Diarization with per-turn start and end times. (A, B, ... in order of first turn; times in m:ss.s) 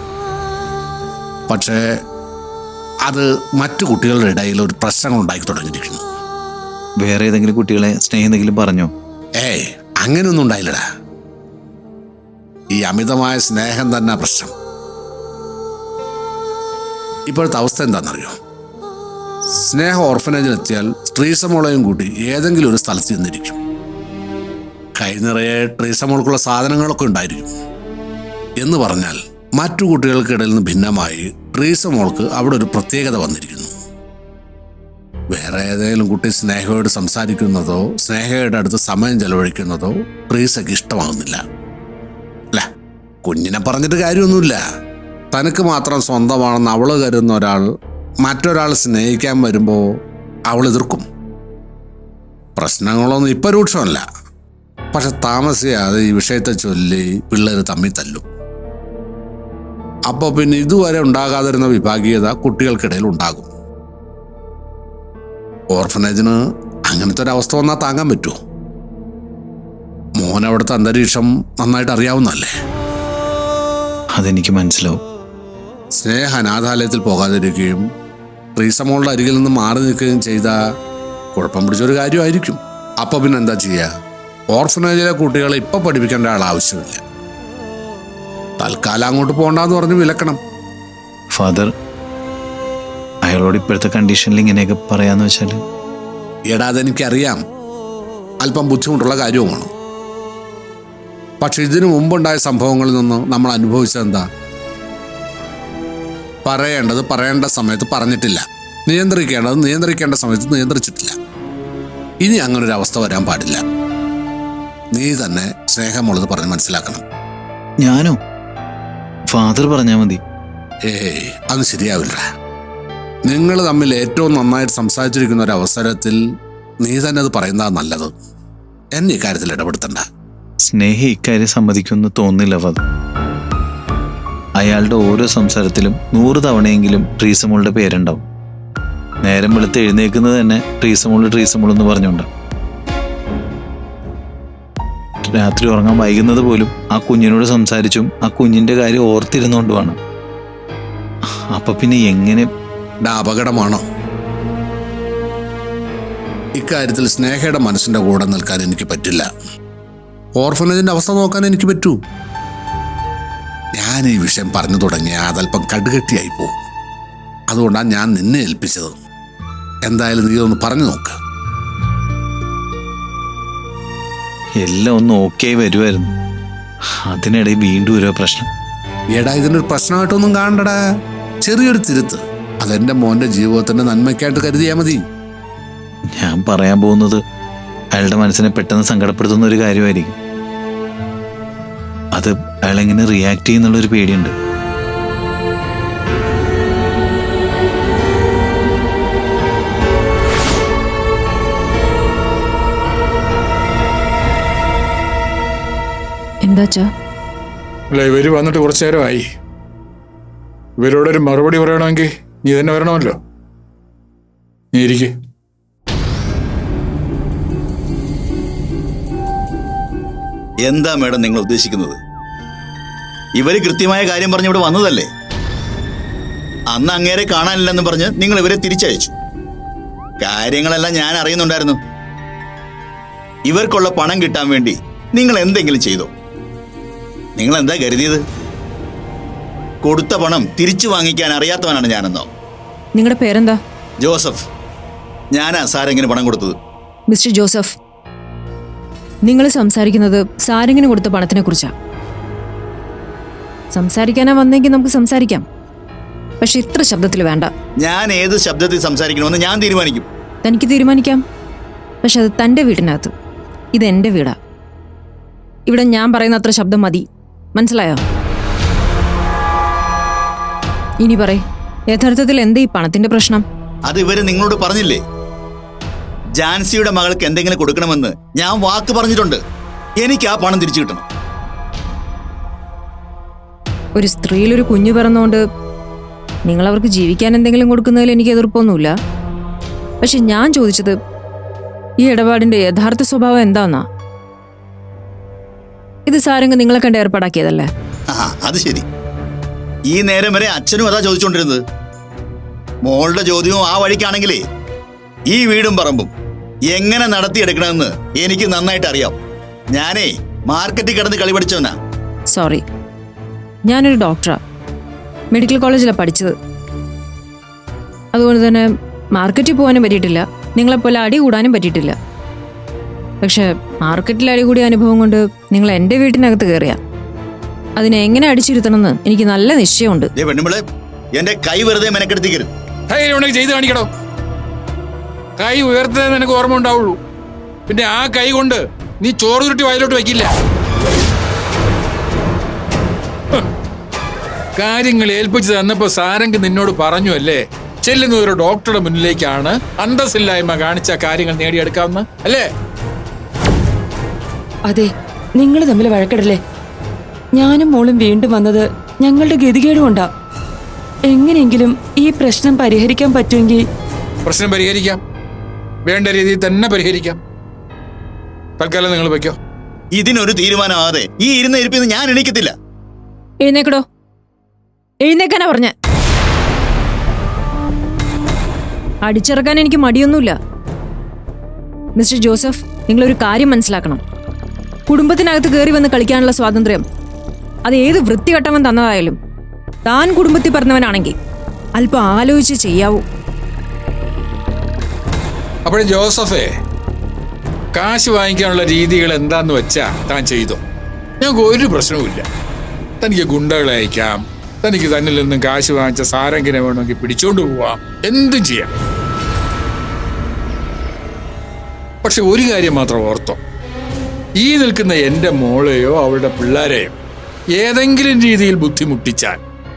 0:01.5-0:01.8 A
0:03.1-0:06.0 A
0:07.0-0:08.9 B
0:09.4-0:10.8 A
0:12.8-0:14.5 A
0:17.3-0:18.4 A
0:19.6-0:23.6 A
0:25.0-0:27.5 A
0:28.6-0:33.7 A
0:35.3-0:41.4 A
0:43.2-0:44.6 A
0:45.3-0:47.7 A
0:48.2-0:49.8 A
0:50.5-0:51.0 A
0:52.6-0:54.0 A
0:54.9-0:58.2 A
1:00.1-1:03.5 A
1:05.7-1:06.4 A
1:06.9-1:08.4 A
1:10.2-1:12.5 A
1:14.2-1:15.0 B
1:16.0-1:17.8 A
1:18.6-1:20.6 A
1:21.4-1:23.9 A
1:24.5-1:27.0 A
1:28.6-1:30.4 A
1:31.3-1:31.7 B
1:33.2-1:35.6 B
1:36.5-1:37.4 A
1:38.4-1:39.7 A
1:41.4-1:44.2 A
1:46.4-1:51.2 A
1:52.2-1:53.6 A
1:54.9-1:57.0 A
1:57.8-1:58.2 B
1:59.3-2:00.2 B
2:00.9-2:02.2 A
2:03.3-2:06.2 A
2:06.8-2:08.1 A
2:09.0-2:10.0 A
2:10.6-2:12.8 B
2:14.6-2:18.2 B
2:19.2-2:22.3 B
2:25.4-2:30.0 B
2:31.5-2:32.5 B
2:33.0-2:33.8 A
2:36.6-2:39.3 A
2:40.4-2:42.0 A
2:43.8-2:46.6 A
2:47.5-2:48.9 A
2:49.8-2:51.2 A
2:54.6-2:56.1 B
2:57.1-2:58.5 B
2:59.1-3:00.8 A
3:01.4-3:05.0 A
3:06.2-3:07.2 B
3:07.9-3:10.2 B
3:12.1-3:14.3 B
3:26.4-3:26.9 C
3:27.9-3:29.2 D
3:30.8-3:33.2 D
3:34.7-3:35.1 D
3:40.6-3:42.0 E
3:43.4-3:45.1 E
3:46.7-3:49.1 E
3:50.2-3:51.8 E
3:53.5-3:56.1 E
3:57.4-3:58.2 E
3:59.8-4:02.3 E
4:03.0-4:03.6 C
4:04.0-4:04.4 E
4:05.3-4:06.6 E
4:07.1-4:07.8 C
4:09.3-4:11.7 C
4:13.7-4:15.4 C
4:16.4-4:17.5 C
4:17.8-4:20.0 E
4:20.4-4:21.2 C
4:22.0-4:23.1 C
4:23.7-4:24.4 C
4:25.7-4:28.0 C
4:31.0-4:33.4 C
4:33.9-4:35.0 E
4:36.4-4:39.4 E
4:40.0-4:41.0 E
4:44.0-4:45.4 C
4:46.5-4:48.9 C
4:50.0-4:51.0 C
4:52.0-4:53.9 C
4:56.1-4:57.7 C
4:58.1-4:58.8 E
4:59.9-5:01.6 E
5:02.8-5:04.4 E
5:05.3-5:06.1 E
5:06.7-5:09.2 E
5:09.7-5:11.7 E
5:12.3-5:12.6 C
5:13.7-5:14.4 C
5:15.3-5:16.3 C
5:18.1-5:22.0 C
5:23.2-5:26.8 C
5:27.8-5:30.1 C
5:30.2-5:30.6 E
5:31.2-5:32.5 E
5:32.9-5:33.9 D
5:35.4-5:37.0 D
5:37.7-5:40.3 D
5:44.6-5:52.5 D
5:54.7-5:56.4 F
5:57.4-6:00.1 F
6:01.1-6:03.6 F
6:04.3-6:05.0 D
6:05.9-6:07.2 D
6:08.6-6:09.4 D
6:10.0-6:12.6 E
6:13.4-6:13.8 C
6:15.0-6:15.7 C
6:19.0-6:20.4 C
6:22.0-6:24.0 C
6:24.9-6:26.8 C
6:27.6-6:29.2 C
6:29.9-6:31.2 C
6:31.8-6:33.0 C
6:35.6-6:36.5 D
6:37.7-6:40.6 D
6:41.2-6:42.2 D
6:43.0-6:48.7 D
6:52.0-6:53.4 D
6:54.4-6:56.9 D
6:57.6-6:59.4 D